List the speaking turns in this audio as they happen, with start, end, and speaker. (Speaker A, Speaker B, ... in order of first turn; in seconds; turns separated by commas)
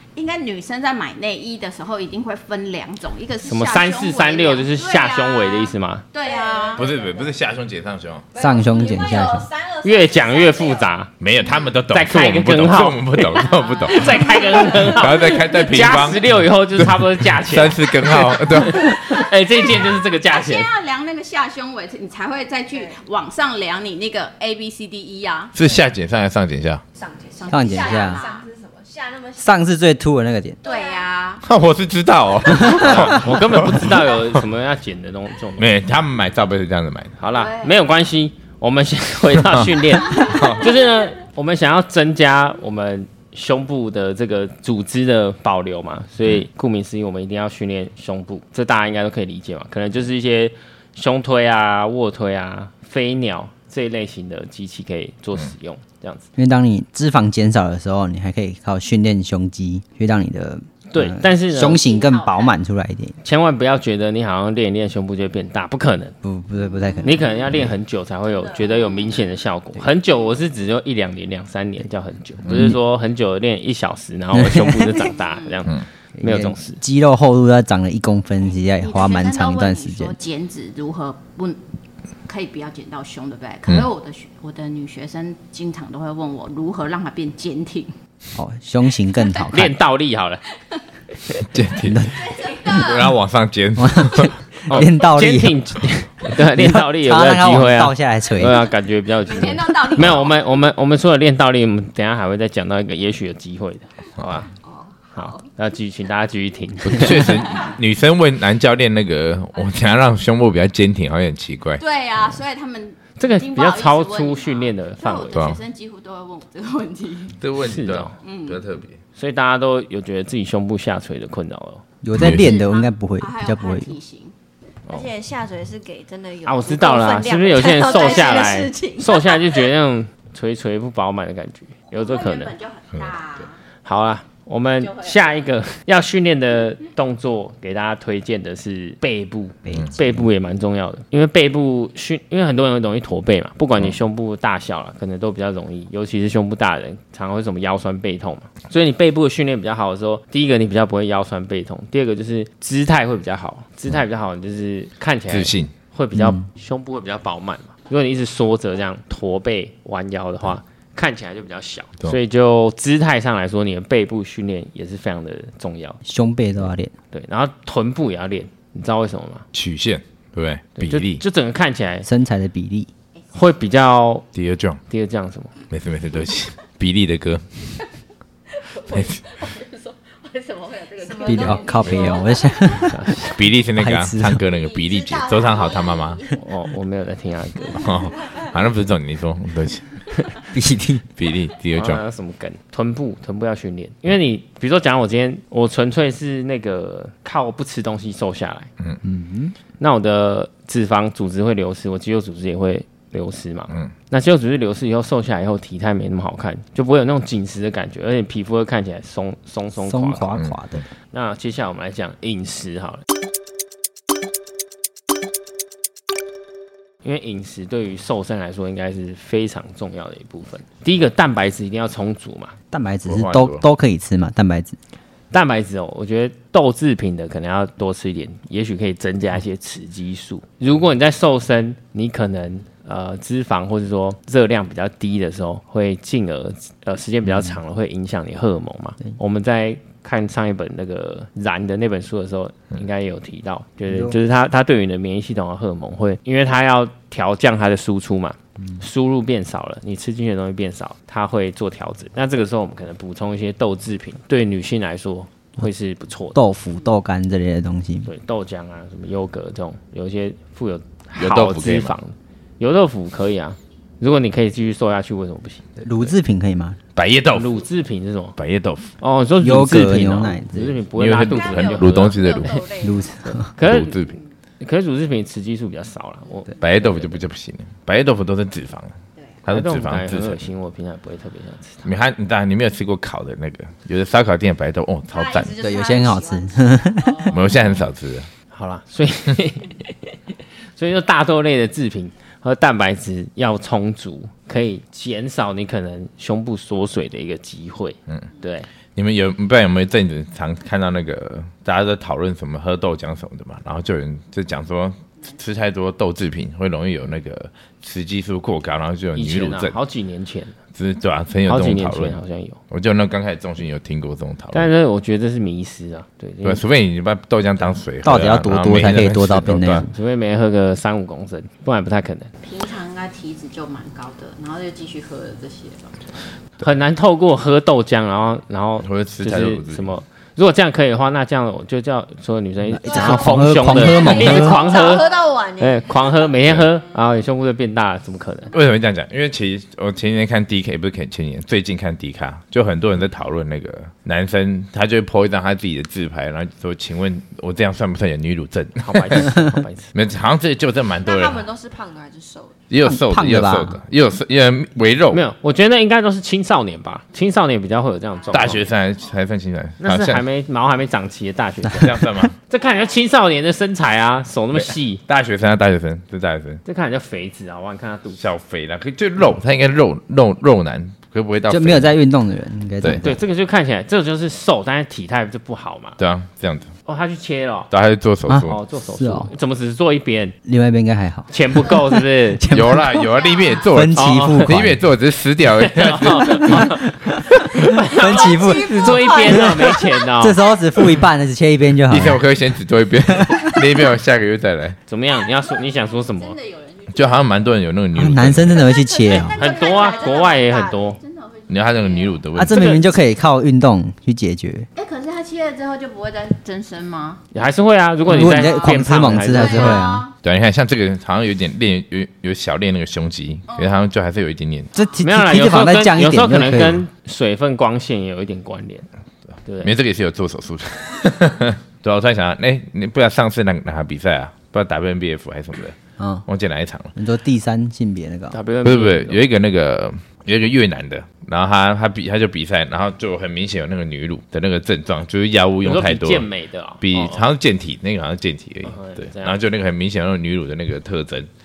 Speaker A: 0.1-6.8, Speaker B: 3.4-6.0, Speaker C: 6.2-7.4, Speaker D: 6.7-8.3, Speaker C: 8.3-10.9, Speaker E: 8.3-9.5, Speaker B: 9.8-11.1, Speaker D: 11.2-14.2, Speaker B: 11.9-20.7, Speaker A: 13.4-15.4, Speaker C: 13.5-14.7, Speaker D: 14.8-19.1, Speaker A: 20.2-25.5, Speaker C: 22.7-23.0, Speaker D: 25.5-26.8, Speaker C: 25.6-25.9, Speaker C: 26.9-29.5, Speaker A: 27.4-28.5, Speaker E: 27.5-28.2, Speaker E: 29.4-30.6, Speaker C: 30.6-31.1, Speaker A: 30.6-31.4, Speaker D: 31.4-34.4, Speaker E: 32.6-33.1, Speaker B: 32.7-35.7, Speaker D: 35.6-37.2, Speaker B: 37.2-56.3, Speaker A: 37.3-37.8, Speaker D: 40.2-40.7, Speaker E: 56.4-63.2, Speaker B: 60.9-61.8, Speaker A: 61.6-62.5, Speaker B: 63.2-66.2, Speaker E: 66.2-67.4, Speaker A: 66.6-67.3, Speaker B: 67.0-76.8, Speaker C: 68.4-68.7, Speaker A: 68.6-69.2, Speaker E: 72.5-72.7, Speaker E: 74.3-75.0, Speaker A: 75.0-75.6, Speaker E: 76.2-80.1, Speaker A: 78.8-81.6, Speaker A: 82.2-87.9, Speaker E: 88.3-89.7, Speaker B: 89.5-90.4, Speaker D: 91.4-94.3, Speaker E: 91.8-92.2, Speaker C: 92.4-92.9, Speaker A: 92.4-93.0, Speaker E: 93.8-95.6, Speaker B: 94.7-104.5, Speaker E: 96.4-98.6, Speaker A: 99.2-100.4, Speaker D: 100.0-100.2, Speaker A: 105.1-105.5, Speaker B: 105.2-107.4, Speaker D: 106.8-111.8, Speaker A: 111.8-117.4, Speaker B: 113.2-115.5, Speaker D: 115.3-115.6, Speaker D: 117.4-119.0, Speaker B: 117.6-118.2, Speaker A: 118.2-118.6, Speaker B: 119.2-121.8, Speaker E: 122.0-123.9, Speaker D: 122.2-122.5, Speaker A: 122.2-124.3, Speaker C: 124.9-129.4, Speaker B: 126.4-132.5, Speaker A: 127.7-128.7, Speaker A: 131.9-133.6, Speaker B: 133.8-166.0, Speaker E: 139.7-140.0, Speaker D: 139.7-140.0, Speaker D: 155.3-155.7, Speaker E: 156.2-156.4, Speaker E: 166.0-166.9, Speaker B: 167.1-169.5, Speaker D: 169.5-171.2, Speaker B: 170.8-172.1, Speaker E: 172.0-172.9, Speaker B: 173.3-174.3, Speaker D: 174.3-174.8, Speaker B: 174.9-175.5, Speaker D: 175.7-177.5, Speaker A: 178.7-182.9, Speaker D: 178.9-179.2, Speaker C: 181.0-182.8, Speaker E: 181.2-183.1, Speaker B: 182.9-183.3, Speaker D: 183.2-186.2, Speaker E: 183.8-184.4, Speaker C: 184.7-186.2, Speaker A: 185.4-186.4, Speaker B: 186.3-187.9, Speaker D: 187.7-189.9, Speaker E: 190.5-191.0, Speaker D: 191.2-192.0, Speaker B: 191.7-198.7, Speaker E: 199.0-199.5, Speaker B: 199.8-210.3, Speaker E: 209.8-210.9, Speaker B: 211.1-213.0, Speaker B: 217.0-222.6, Speaker E: 222.7-224.8, Speaker D: 223.1-223.6, Speaker B: 225.3-256.4, Speaker E: 243.9-244.1, Speaker E: 256.3-258.1, Speaker B: 258.0-266.1, Speaker D: 261.2-262.0, Speaker E: 265.8-266.8, Speaker D: 266.9-267.5, Speaker B: 267.3-268.4, Speaker D: 268.4-268.9, Speaker B: 269.0-272.3, Speaker E: 269.4-270.8, Speaker D: 270.9-272.7, Speaker C: 271.3-273.1, Speaker A: 271.5-273.1, Speaker E: 272.8-273.5, Speaker B: 273.2-274.0, Speaker D: 273.6-274.2, Speaker B: 274.6-277.2, Speaker D: 276.6-280.4, Speaker B: 279.5-281.9, Speaker D: 281.8-285.5, Speaker A: 285.1-287.8, Speaker E: 285.5-287.2, Speaker D: 287.3-288.3, Speaker B: 288.5-290.2, Speaker B: 290.8-298.7, Speaker D: 298.9-309.8, Speaker B: 309.1-310.6, Speaker D: 310.7-312.2, Speaker B: 311.5-312.6, Speaker D: 312.7-314.7, Speaker B: 314.5-316.6, Speaker D: 316.4-319.9, Speaker E: 318.0-319.9, Speaker B: 319.9-322.3, Speaker A: 322.4-326.0, Speaker B: 326.6-338.5, Speaker D: 328.8-329.9, Speaker E: 332.7-334.7, Speaker C: 332.9-336.0, Speaker D: 338.5-349.4, Speaker B: 348.8-349.9, Speaker D: 349.9-351.5, Speaker C: 351.0-352.6, Speaker D: 352.7-355.2, Speaker E: 352.8-353.8, Speaker B: 355.1-358.7, Speaker D: 358.3-360.2, Speaker B: 359.8-365.0, Speaker D: 361.7-362.4, Speaker D: 364.5-366.6, Speaker B: 366.6-368.2, Speaker D: 368.1-371.9, Speaker E: 371.5-373.2, Speaker B: 373.0-376.0, Speaker D: 376.0-376.7, Speaker B: 376.8-377.7, Speaker D: 377.7-378.6, Speaker E: 378.3-379.3, Speaker B: 378.4-380.4, Speaker E: 380.4-384.8, Speaker B: 381.3-382.4, Speaker D: 382.5-386.7, Speaker B: 383.9-384.6, Speaker B: 385.5-390.9, Speaker E: 386.2-392.3, Speaker C: 387.9-390.0, Speaker D: 391.9-394.8, Speaker E: 393.1-393.6, Speaker B: 394.9-396.4, Speaker A: 395.2-397.5, Speaker D: 396.9-398.7, Speaker E: 397.9-399.4, Speaker C: 398.7-400.8, Speaker B: 399.4-401.0, Speaker A: 399.4-400.4, Speaker A: 401.0-402.2, Speaker D: 401.5-402.8, Speaker E: 402.3-404.7, Speaker B: 402.5-402.8, Speaker A: 404.8-407.2, Speaker B: 407.3-409.8, Speaker E: 408.1-410.1, Speaker A: 408.3-408.8, Speaker A: 409.3-410.1, Speaker D: 410.2-414.7, Speaker A: 413.5-413.8, Speaker E: 414.7-416.9, Speaker B: 415.0-418.9, Speaker B: 419.4-419.7, Speaker D: 419.6-426.9, Speaker E: 426.0-426.2, Speaker E: 426.9-428.4, Speaker B: 428.3-429.2, Speaker D: 428.6-436.3, Speaker B: 435.6-437.2, Speaker D: 436.8-441.3, Speaker B: 438.6-439.4